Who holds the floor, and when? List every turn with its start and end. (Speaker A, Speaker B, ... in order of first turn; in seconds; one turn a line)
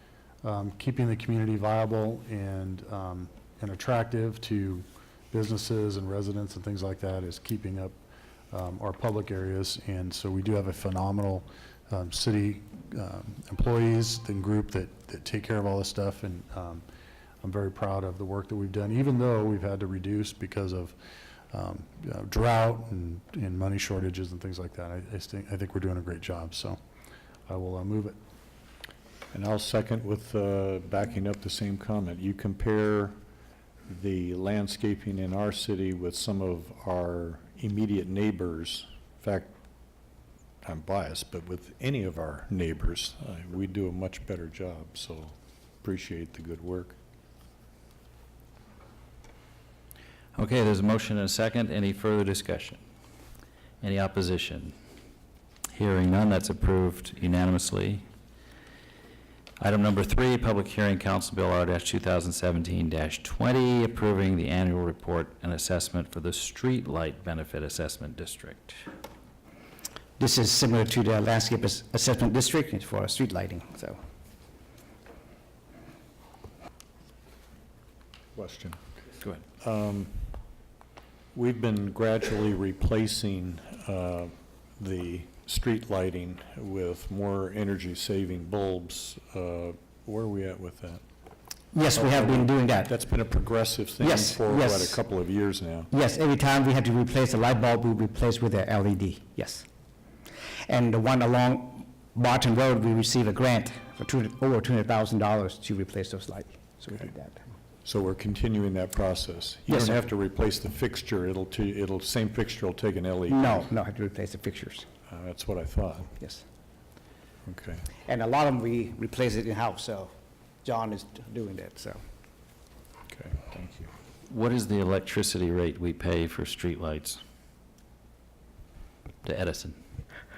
Speaker A: 0.4-8.0
Speaker A: 8.5-16.8
Speaker A: 17.4-20.9
Speaker A: 21.5-26.8
Speaker A: 27.5-28.2
Speaker B: 29.3-33.1
Speaker B: 33.9-39.5
Speaker B: 40.6-47.0
Speaker C: 50.3-52.8
Speaker C: 53.8-54.7
Speaker C: 55.7-58.0
Speaker C: 59.6-68.8
Speaker D: 70.2-74.0
Speaker B: 78.3-78.8
Speaker B: 79.6-80.3
Speaker B: 81.3-91.0
Speaker D: 91.7-92.9
Speaker B: 91.9-95.9
Speaker D: 94.0-95.0
Speaker D: 95.9-99.6
Speaker D: 100.7-107.4
Speaker B: 107.8-113.7
Speaker D: 109.7-109.9
Speaker D: 113.3-114.8
Speaker B: 115.1-116.1
Speaker B: 117.5-117.8
Speaker D: 118.1-120.1
Speaker D: 120.6-122.0
Speaker B: 123.1-123.9
Speaker C: 124.3-127.2
Speaker C: 129.2-129.8